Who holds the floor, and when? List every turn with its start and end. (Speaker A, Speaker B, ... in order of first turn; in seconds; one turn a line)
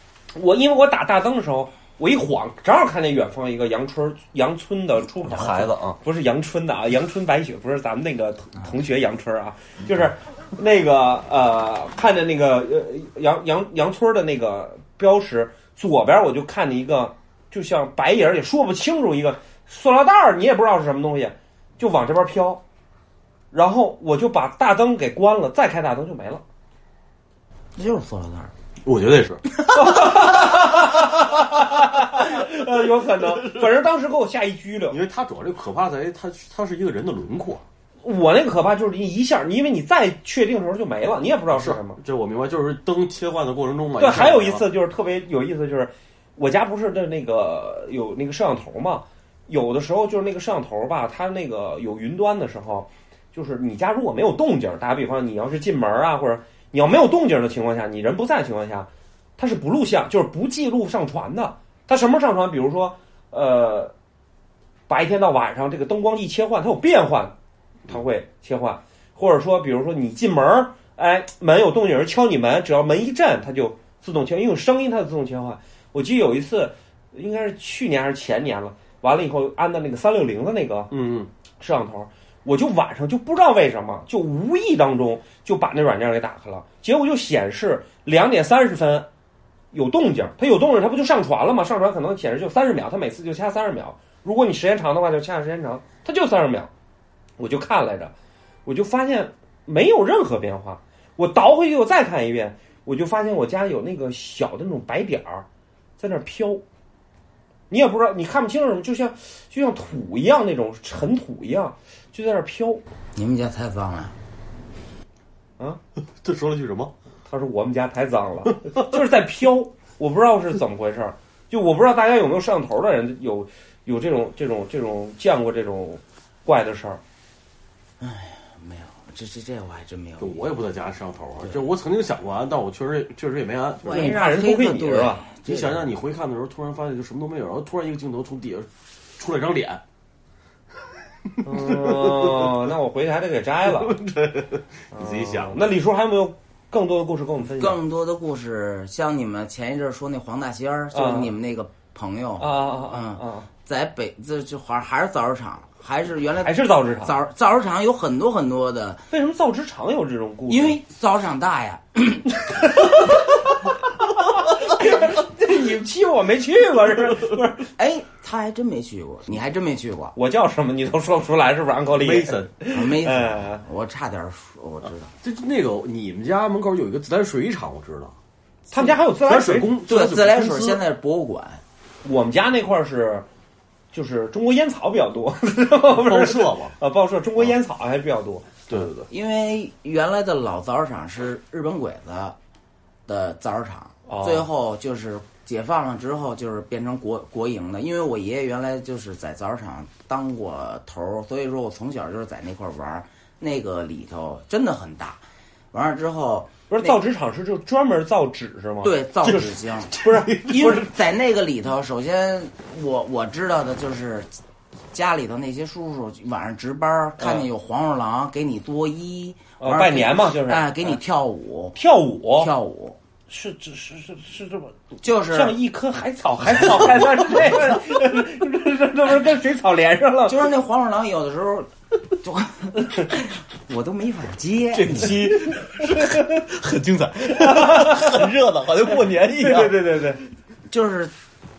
Speaker A: 0.3-22.6
Speaker B: 5.2-6.0
Speaker A: 23.5-26.4
Speaker C: 27.8-28.5
Speaker B: 28.8-29.4
Speaker A: 29.7-35.0
Speaker B: 33.4-33.6
Speaker B: 34.9-37.6
Speaker A: 38.0-42.0
Speaker B: 41.5-44.7
Speaker A: 44.0-63.9
Speaker A: 64.9-67.3
Speaker A: 67.9-80.9
Speaker B: 80.9-81.3
Speaker A: 81.6-89.1
Speaker A: 89.7-96.7
Speaker A: 97.4-98.1
Speaker A: 98.6-105.4
Speaker A: 106.0-106.6
Speaker A: 107.7-112.8
Speaker C: 113.1-114.1
Speaker B: 116.2-116.9
Speaker A: 117.2-127.0
Speaker C: 128.0-130.4
Speaker B: 130.2-134.1
Speaker C: 133.8-135.9
Speaker A: 133.8-135.2
Speaker B: 135.4-139.8
Speaker B: 141.2-142.6
Speaker A: 141.4-143.9
Speaker B: 143.7-145.6
Speaker A: 144.9-147.8
Speaker C: 147.6-159.0
Speaker A: 150.9-151.3
Speaker A: 152.4-153.5
Speaker A: 156.4-157.2
Speaker A: 159.1-160.8
Speaker C: 160.5-162.3
Speaker A: 162.4-167.7
Speaker C: 167.8-170.2
Speaker A: 170.2-173.6
Speaker B: 171.9-172.5
Speaker C: 172.7-175.1
Speaker B: 175.2-178.1
Speaker B: 178.7-180.8
Speaker A: 178.7-179.8
Speaker C: 179.8-181.6
Speaker A: 182.0-183.2
Speaker A: 183.9-188.7
Speaker B: 185.9-186.7
Speaker B: 188.7-189.0
Speaker C: 189.1-192.3
Speaker C: 193.1-205.2
Speaker A: 194.1-194.5
Speaker C: 205.7-207.0
Speaker A: 206.7-210.8
Speaker C: 208.8-214.3
Speaker B: 209.9-210.8
Speaker C: 214.9-221.8
Speaker A: 217.2-217.5
Speaker A: 219.6-221.0
Speaker A: 221.7-222.5
Speaker C: 222.3-223.0
Speaker A: 223.3-224.8
Speaker C: 225.0-225.6
Speaker A: 225.3-230.4
Speaker C: 230.3-235.3
Speaker B: 234.7-239.7
Speaker A: 237.3-238.3
Speaker A: 239.3-240.2
Speaker C: 240.7-241.1